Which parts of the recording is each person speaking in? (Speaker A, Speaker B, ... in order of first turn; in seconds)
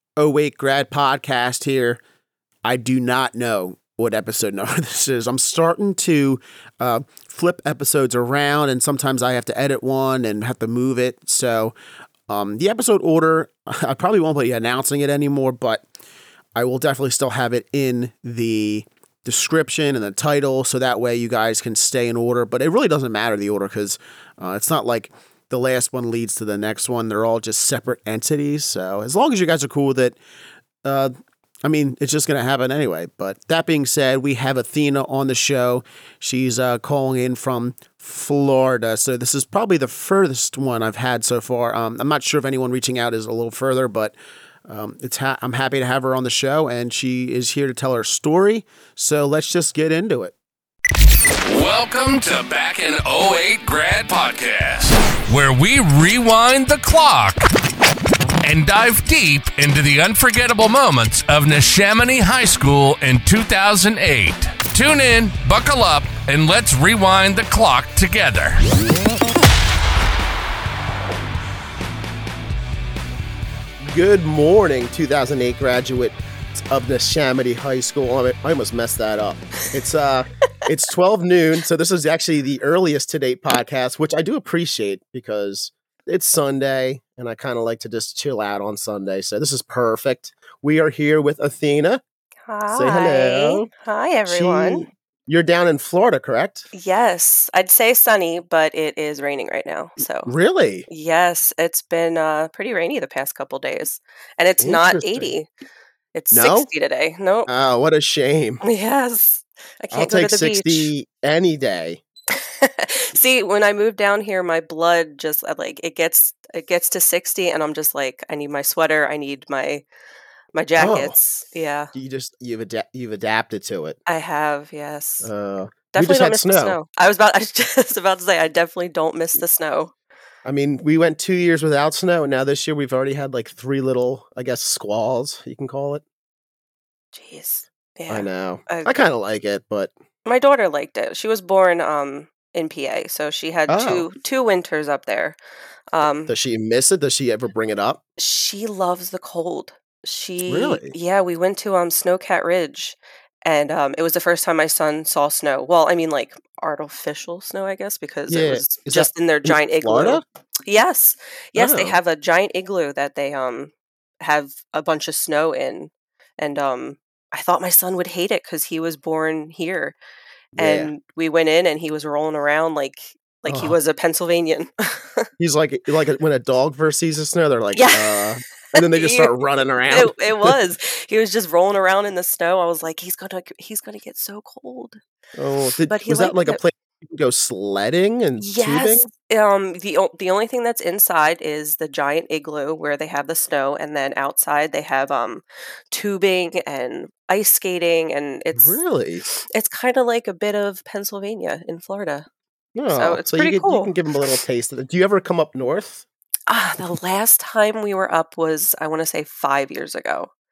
Speaker A: 0.2-2.0, 2.6-11.7, 12.3-15.8, 16.5-30.1, 30.8-31.1, 31.6-44.1, 44.7-50.3, 73.8-92.0, 92.7-93.7, 94.3-96.7, 100.2-100.9, 104.6-105.3, 106.3-106.7, 107.5-108.6, 109.9-112.0, 120.8-121.1, 121.9-124.0, 125.2-126.8, 130.4-136.0, 138.1-139.9, 143.7-144.1, 146.3-148.0, 150.5-150.9, 158.3-160.2, 161.6-162.0, 170.6-170.9, 173.4-173.8, 175.4-180.6, 185.4-189.1, 198.5-199.2, 202.7-206.0
Speaker B: 51.5-57.4, 58.4-68.6
Speaker C: 92.5-94.9, 96.7-100.3, 100.9-105.5, 106.1-107.5, 108.6-110.9, 112.3-119.8, 120.5-121.9, 124.0-125.3, 125.9-129.9, 137.1-138.9, 140.2-145.4, 145.9-146.3, 148.2-170.0, 170.6-175.3, 177.7-179.4, 179.9-185.0, 185.8-186.6, 188.4-202.3, 202.9-203.9, 206.5-210.3